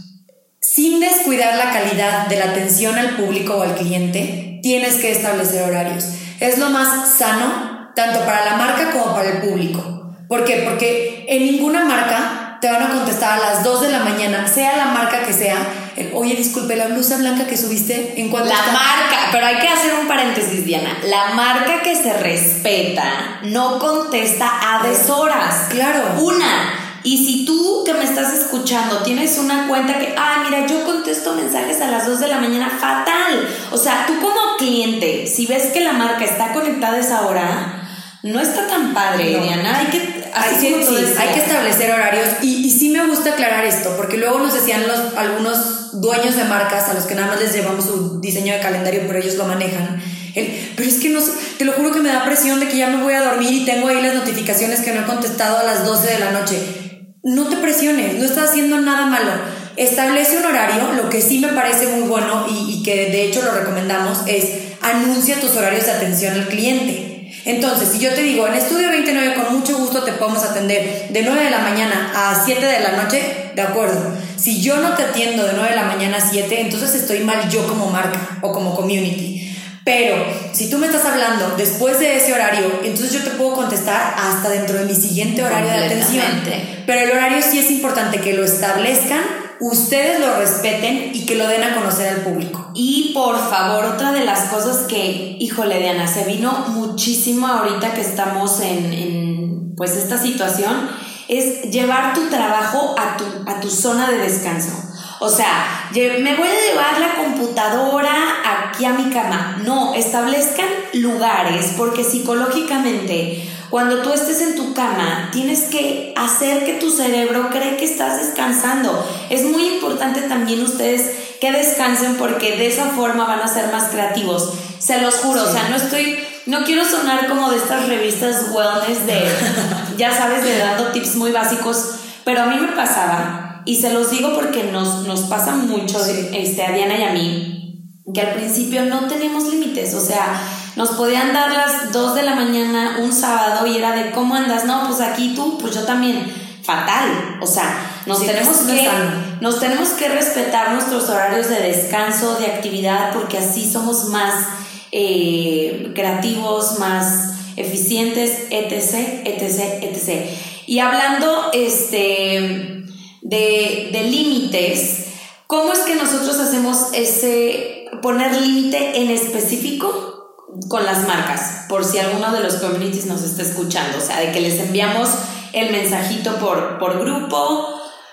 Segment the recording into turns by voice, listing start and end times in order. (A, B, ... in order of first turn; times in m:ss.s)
0:00.6-0:18.8 A
0:18.4-0:37.7 B
0:24.8-0:25.0 A
0:25.7-0:26.2 A
0:38.2-0:41.5 B
0:39.2-0:56.7 A
0:57.2-1:32.7 A
1:25.4-1:26.7 B
1:32.7-2:17.5 B
2:05.3-2:05.6 A
2:09.4-2:09.8 A
2:16.0-2:16.3 A
2:18.1-2:50.1 B
2:28.1-2:29.2 A
2:50.6-2:57.7 B